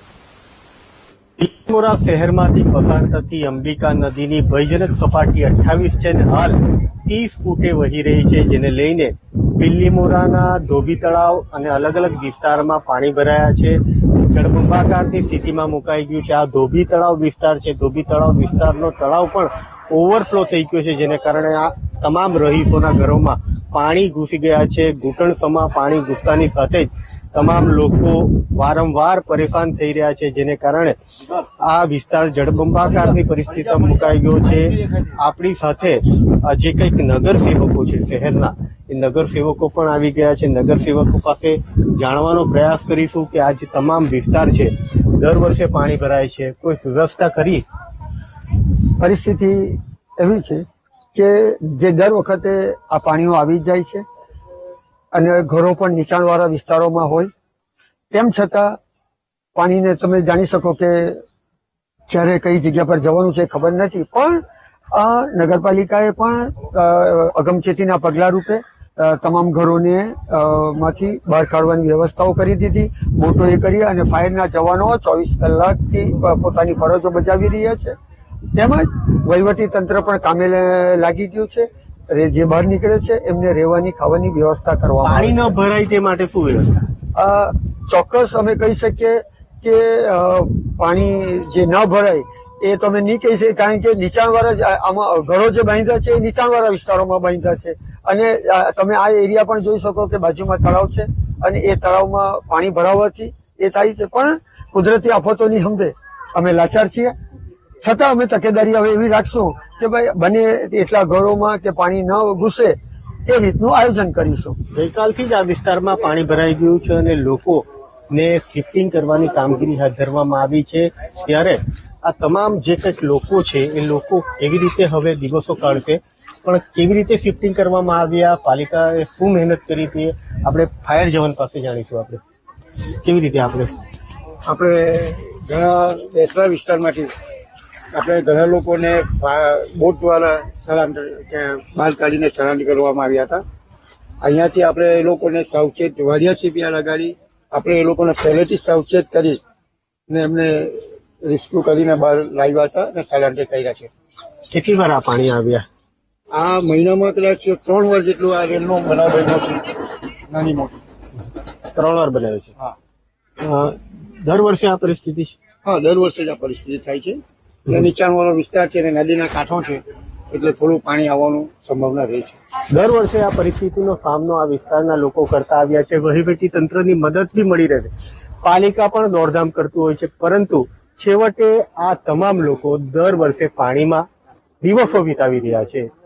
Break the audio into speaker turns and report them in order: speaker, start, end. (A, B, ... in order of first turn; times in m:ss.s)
0:01.4-0:47.6 A
0:49.0-0:54.0 B
0:55.1-0:57.3 B
0:58.1-0:58.8 B
0:59.6-1:01.2 B
1:02.1-1:04.4 B
1:04.9-1:17.9 B
1:18.6-1:25.5 B
1:25.0-1:26.9 A
1:27.1-1:47.1 B
1:47.8-1:52.7 B
1:53.3-1:54.6 B
1:54.7-2:12.2 A
2:12.8-2:13.7 A
2:14.4-2:17.1 C
2:17.9-2:23.4 C
2:24.2-2:29.4 C
2:30.1-2:33.9 C
2:34.5-2:35.6 A
2:36.3-2:39.6 C
2:40.3-2:40.8 C
2:41.7-2:42.5 A
2:43.4-2:45.4 A
2:45.6-2:52.4 C
2:52.7-2:57.9 A
2:58.4-3:04.1 A
3:04.6-3:05.9 A